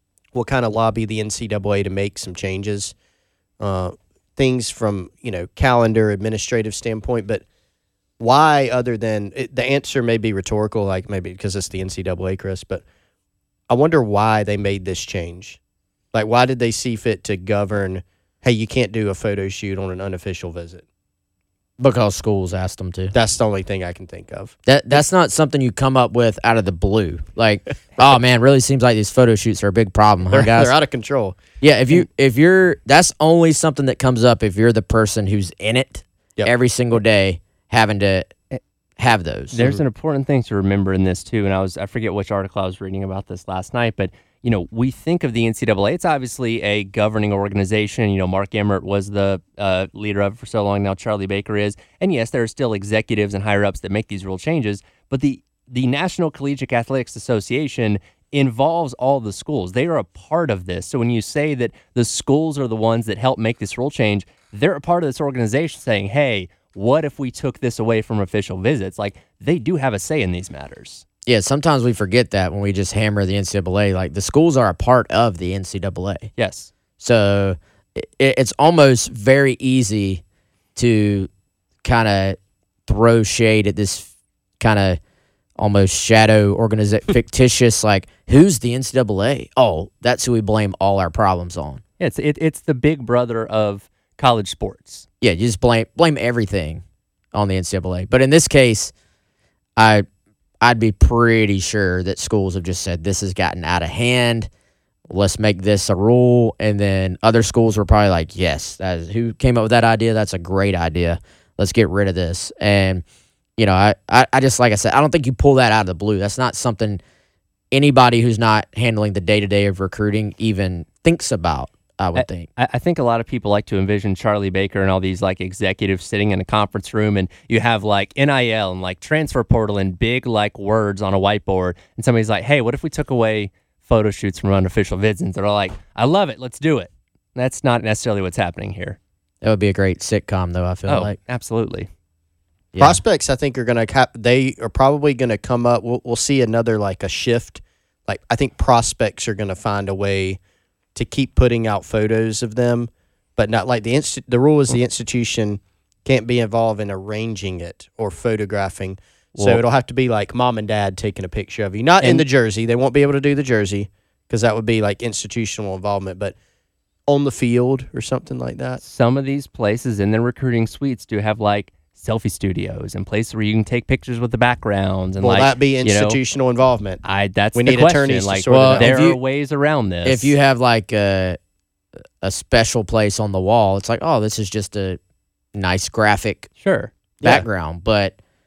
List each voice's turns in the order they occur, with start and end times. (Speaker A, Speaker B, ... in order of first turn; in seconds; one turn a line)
Speaker A: 0.3-2.9
Speaker A: 3.6-7.4
Speaker A: 8.2-12.8
Speaker A: 13.7-15.6
Speaker A: 16.1-20.8
Speaker B: 21.8-23.1
Speaker A: 23.1-24.6
Speaker B: 24.7-30.7
Speaker A: 30.3-31.4
Speaker B: 31.6-38.3
Speaker B: 39.0-39.6
Speaker C: 39.5-71.0
Speaker B: 71.3-76.3
Speaker C: 76.4-76.7
Speaker B: 77.0-80.2
Speaker B: 80.8-81.3
Speaker B: 81.8-84.1
Speaker B: 84.6-85.0
Speaker B: 85.6-91.8
Speaker C: 92.0-95.1
Speaker B: 95.2-96.8
Speaker B: 97.3-98.9
Speaker B: 99.8-100.0
Speaker B: 100.6-104.5
Speaker B: 105.1-113.0
Speaker B: 113.6-117.0
Speaker B: 117.7-122.5
Speaker C: 122.2-139.0
Speaker B: 139.4-141.2
Speaker C: 140.9-141.9
Speaker B: 142.7-143.0
Speaker A: 142.8-150.4
Speaker A: 150.9-166.4
Speaker C: 159.4-159.6
Speaker C: 162.0-162.2
Speaker A: 167.1-168.8
Speaker C: 168.8-176.2
Speaker A: 175.2-177.0
Speaker C: 177.0-180.3
Speaker A: 177.6-179.0
Speaker B: 178.5-179.2
Speaker B: 180.1-181.4
Speaker B: 182.2-185.0
Speaker B: 185.6-186.5
Speaker C: 186.6-186.9
Speaker A: 187.2-187.5
Speaker B: 187.2-188.2